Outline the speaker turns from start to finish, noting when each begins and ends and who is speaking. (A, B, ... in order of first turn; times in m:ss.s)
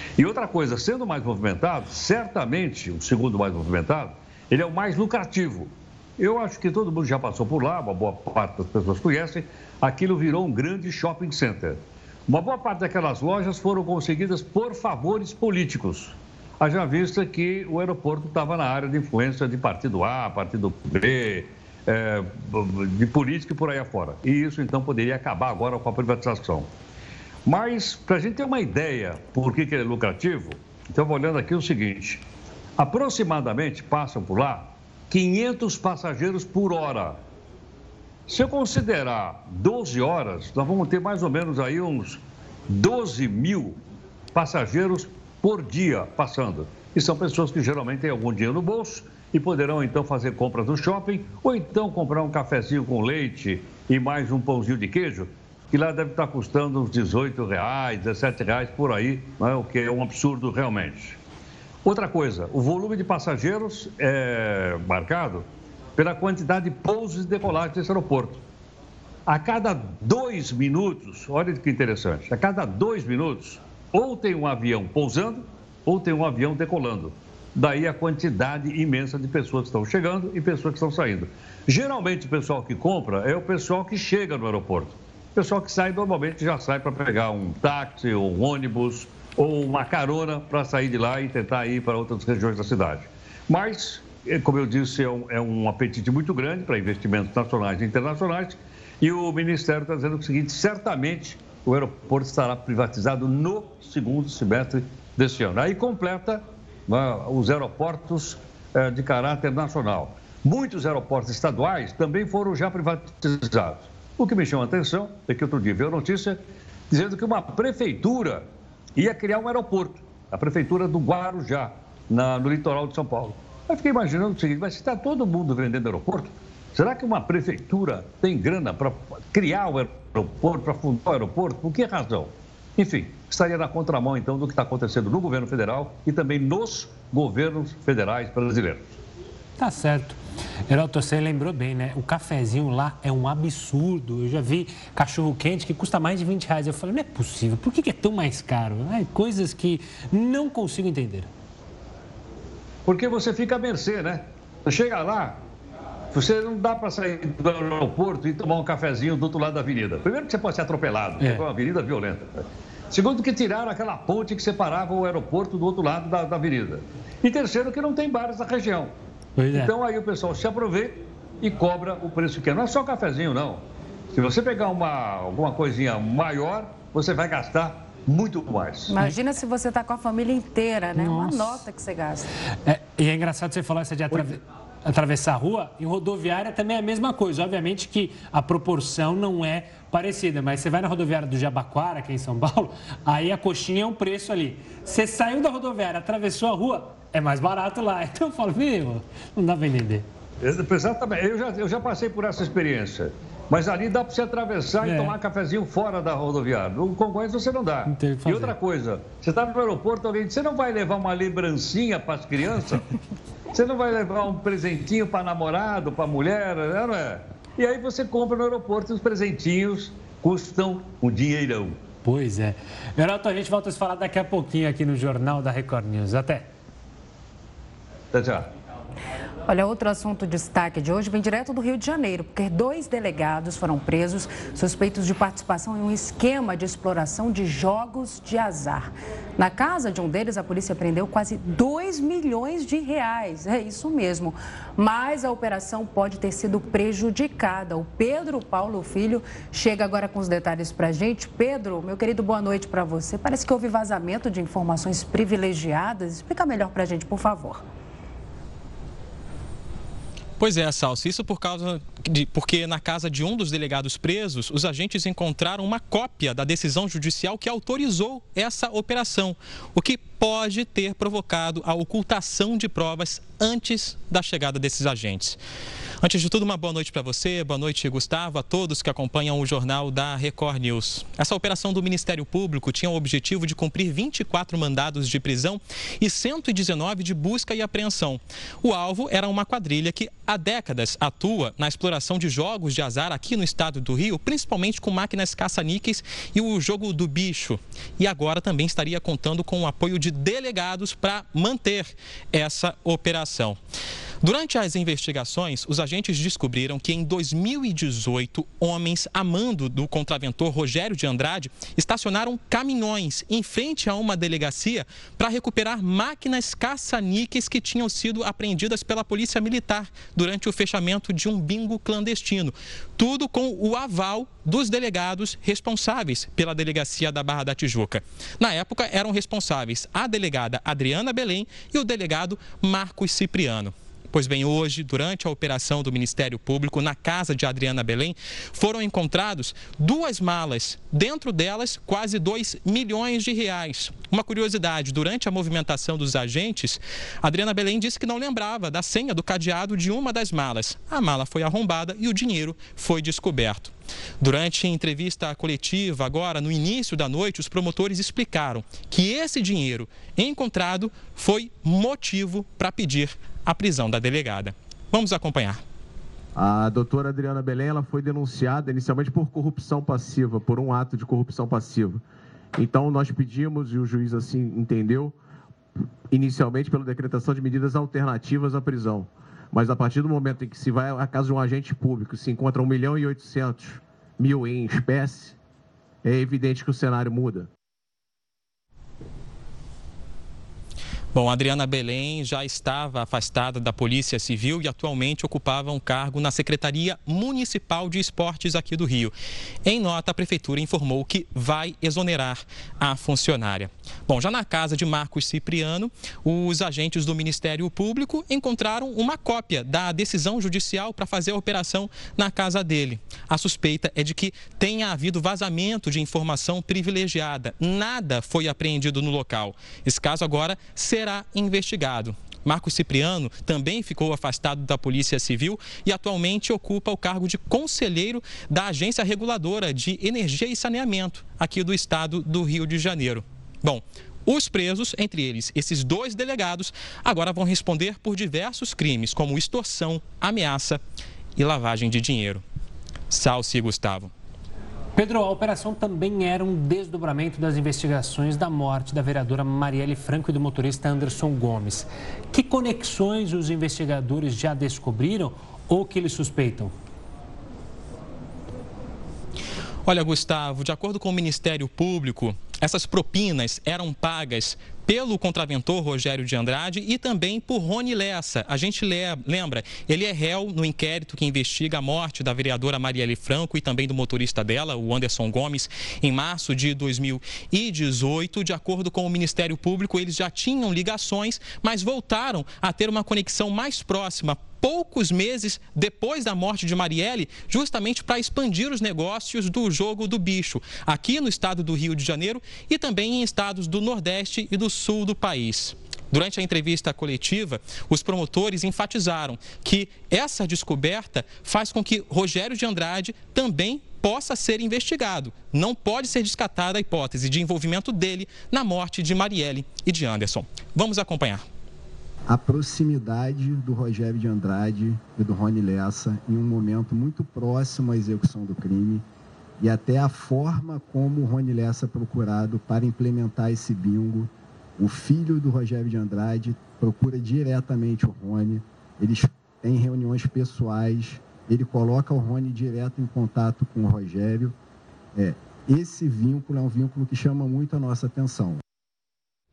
0:00.2-0:26.7 A
0:27.4-0:32.2 A
0:32.8-0:37.2 A
0:38.3-0:43.8 A
0:44.3-1:01.2 A
1:01.8-1:08.4 A
1:09.3-2:19.0 A
2:19.6-2:31.3 B
2:32.8-2:35.4 A
2:36.1-2:48.9 A
2:41.2-2:41.4 B
2:49.4-2:49.7 B
2:49.5-2:59.0 A
2:58.9-3:02.3 C
3:01.0-3:01.6 B
3:02.6-3:20.1 B
3:20.4-3:32.8 A
3:24.8-3:25.1 B
3:27.8-3:28.6 B
3:33.5-3:41.8 A
3:42.0-3:46.5 B
3:48.1-3:48.5 A
3:49.5-4:17.6 C
4:20.4-4:35.4 D
4:36.0-5:03.6 D
5:04.2-6:05.6 D
6:06.3-6:12.0 E
6:12.6-6:15.2 E
6:16.1-6:25.4 E
6:26.0-6:27.5 E
6:31.1-6:39.1 D
6:39.6-7:20.8 D
7:21.4-7:22.4 D
7:23.1-7:24.1 D
7:24.9-7:36.7 B
7:39.8-8:31.4 D
8:32.3-8:39.0 F
8:39.6-8:54.5 F
8:55.2-8:58.6 F